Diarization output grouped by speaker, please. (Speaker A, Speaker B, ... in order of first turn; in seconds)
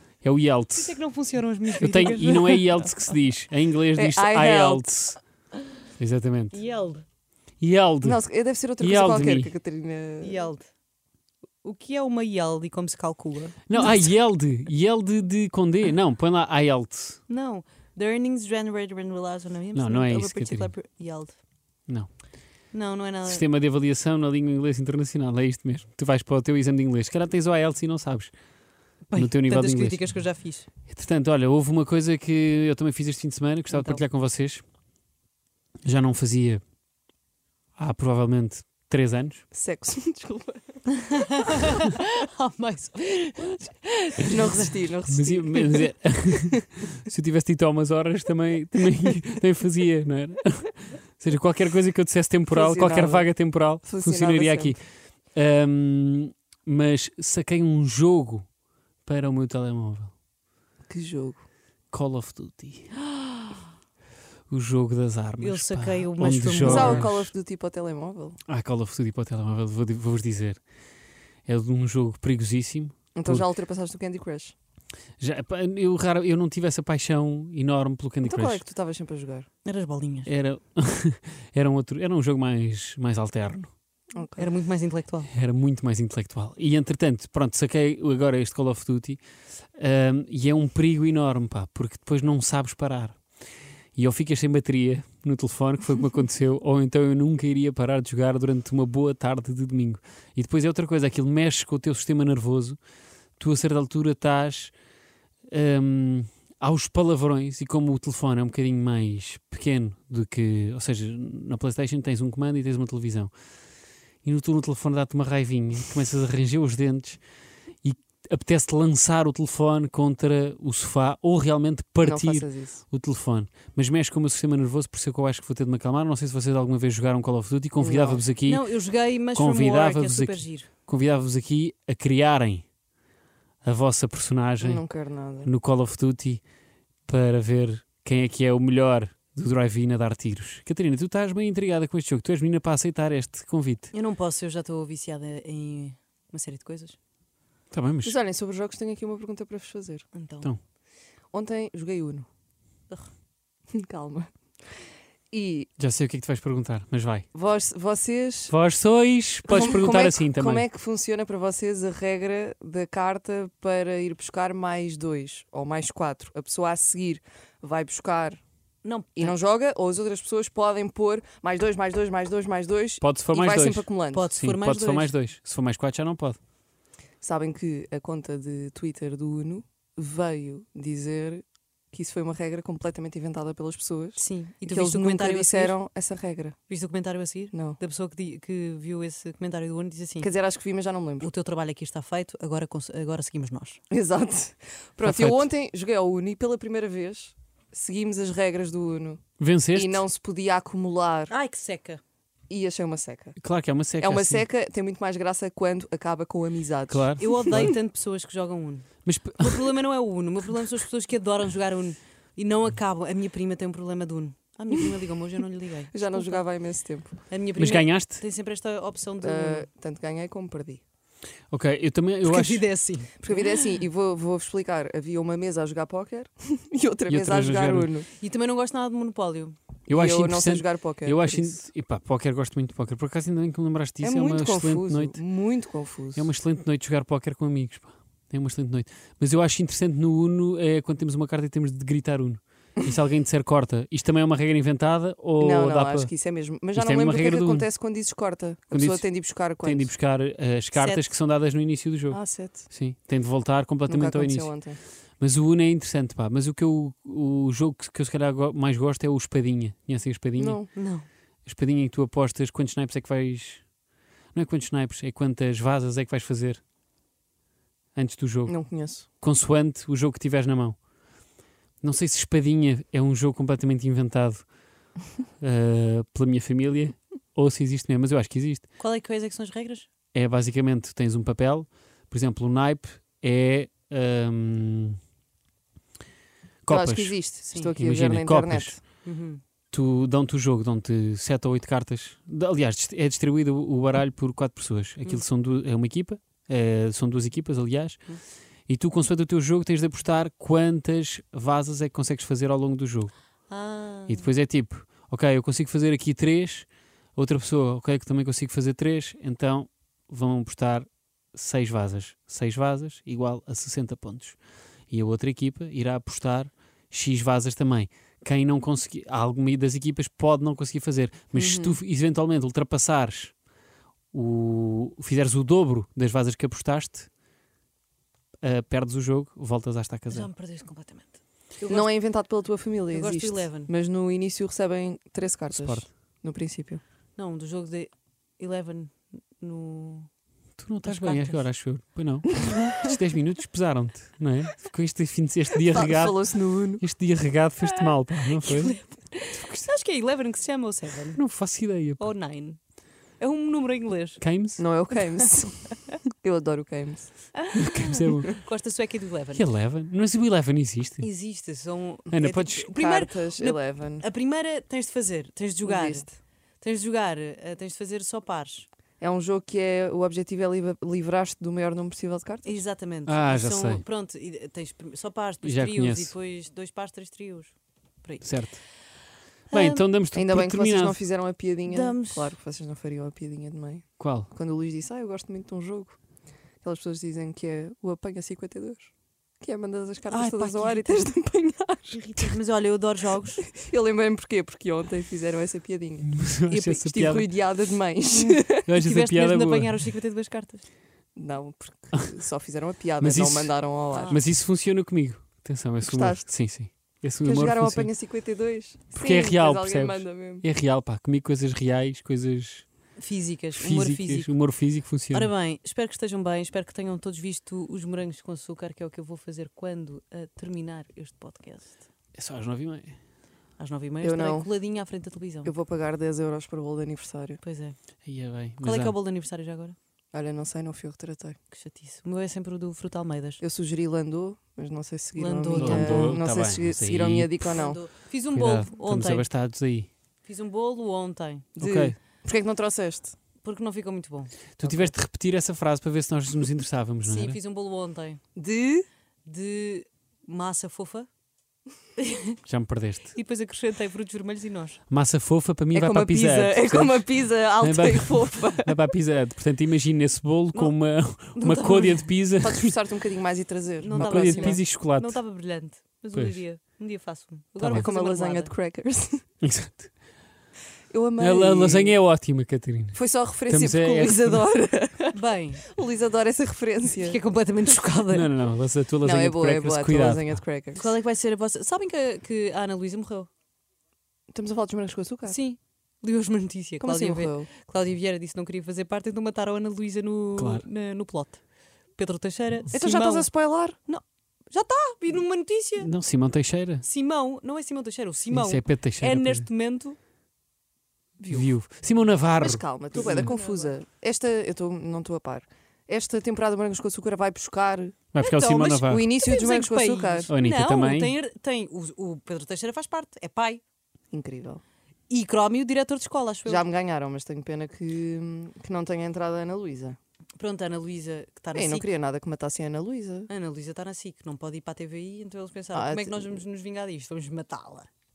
Speaker A: 0.2-1.0, 1.8-5.2, 6.0-6.6, 7.6-8.2, 8.8-9.5, 13.7-17.2, 19.7-20.7, 23.2-28.3, 29.1-30.0, 30.9-34.6, 35.8-36.6, 37.8-39.4, 45.1-54.8, 55.3-58.5, 59.0-60.1, 61.9-63.0, 64.5-67.3, 68.5-70.6, 71.5-73.5, 75.2-78.6, 80.3-83.7, 85.3-89.2, 89.8-93.2, 94.0-102.8, 103.4-104.7, 105.5-113.3, 114.2-117.2, 117.8-128.7, 129.3-132.6, 133.6-134.8, 135.4-136.4, 137.1-143.9, 147.7-148.2, 155.8-157.2, 158.5-160.7, 173.0-176.4, 195.0-195.5, 199.4-200.0, 203.4-204.4, 206.9-207.7, 209.1-209.7, 217.6-218.2, 221.5-222.7, 227.1-227.9, 229.9-235.2, 236.2-246.1, 246.7-247.7, 248.7-260.6, 261.4-263.7, 264.3-266.6, 267.9-268.6, 269.2-270.8, 271.8-274.4, 275.4-278.7, 280.1-285.0, 286.6-288.8, 289.7-298.1, 298.7-303.1, 304.1-314.4, 314.9-323.3, 324.1-327.1, 328.4-330.3, 335.5-335.9, 340.6-348.8, 349.4-349.7, 351.2-352.1, 354.2-354.6, 357.6-358.4, 359.3-361.1, 362.1-362.7, 373.1-373.8, 375.4-376.1, 378.2-378.6, 379.5-381.0, 384.0-384.3, 396.0-397.3, 398.7-399.7, 403.0-407.9, 408.9-412.7, 413.6-415.3, 422.1-423.0, 428.1-428.9, 435.6-437.4, 438.3-439.9, 441.6-441.9, 444.6-447.4, 452.4-453.1, 454.9-462.8, 463.9-465.2, 466.1-466.4, 467.6-467.8, 469.4-469.9, 471.2-474.4, 478.1-480.4, 490.4-490.6, 495.8-496.8, 498.3-499.4, 501.3-503.3, 508.1-509.1, 510.3-511.1
Speaker B: 0.8-2.9, 6.5-7.0, 10.2-10.7, 11.6-13.9, 17.3-21.4, 22.7-23.4, 29.1-30.7, 33.7-34.0, 41.1-44.6, 65.4-67.1, 79.6-80.3, 84.4-85.3, 128.4-130.7, 143.9-147.0, 150.1-150.5, 168.8-169.3, 174.1-175.1, 184.2-185.8, 186.7-190.3, 191.2-193.8, 201.3-202.0, 207.2-216.4, 217.3-219.7, 222.2-223.4, 228.2-229.6, 250.7-251.1, 260.7-261.1, 278.8-279.9, 289.0-289.4, 303.5-304.3, 330.1-331.9, 332.9-333.7, 337.2-340.1, 340.8-341.4, 342.7-342.9, 347.6-351.2, 352.0-352.6, 353.2-354.2, 357.4-359.4, 361.0-366.1, 366.6-368.7, 372.4-378.4, 379.5-379.8, 381.7-382.4, 390.1-391.1, 391.9-393.4, 398.1-400.6, 403.9-404.2, 413.0-414.4, 415.1-421.8, 423.6-425.5, 427.4-427.8, 428.6-429.8, 431.5-433.4, 435.2-436.2, 437.5-439.3, 440.2-441.4, 443.4-444.3, 447.1-448.2, 449.2-451.1, 452.0-452.4, 453.1-454.8, 460.5-462.1, 463.8-468.5, 475.1-475.6, 476.9-478.3, 480.7-483.3, 485.3-491.4, 491.9-493.3, 493.9-495.9, 496.8-500.0, 502.9-503.7, 508.2-513.6, 515.1-516.7, 520.4-521.9, 523.3-527.9
Speaker C: 3.9-4.9, 8.0-10.5, 39.5-40.8, 44.2-46.6, 52.5-54.8, 60.9-61.4, 66.6-68.4, 73.1-74.5, 78.2-79.5, 84.1-84.5, 122.0-122.8, 127.8-128.3, 134.6-135.5, 148.1-150.1, 151.3-152.3, 153.7-154.3, 155.3-155.7, 157.3-158.6, 159.4-168.4, 169.2-174.4, 177.2-186.6, 187.5-187.8, 190.2-191.3, 193.9-199.2, 199.7-201.3, 202.5-203.3, 204.0-207.7, 215.9-217.2, 219.2-220.8, 223.2-228.1, 229.9-231.6, 234.0-236.3, 245.4-249.9, 252.1-252.7, 253.9-254.8, 260.4-260.7, 268.5-269.1, 286.7-288.8, 321.3-321.8, 331.7-336.8, 345.7-346.8, 354.6-357.3, 362.1-364.1, 365.6-366.1, 369.0-372.6, 380.1-386.0, 386.6-392.3, 393.4-398.7, 401.2-404.2, 405.8-406.4, 407.2-410.4, 424.0-424.5, 425.4-427.4, 430.1-431.4, 433.4-437.8, 441.6-443.1, 448.4-448.9, 455.7-458.8, 462.4-464.6, 467.7-469.2, 470.9-472.0, 472.9-477.2, 479.0-480.9, 484.3-485.4, 486.8-487.5, 492.7-493.8, 501.2-501.5, 502.4-508.0, 508.9-510.3, 514.1-514.6, 516.4-520.0, 521.5-523.3, 525.7-526.4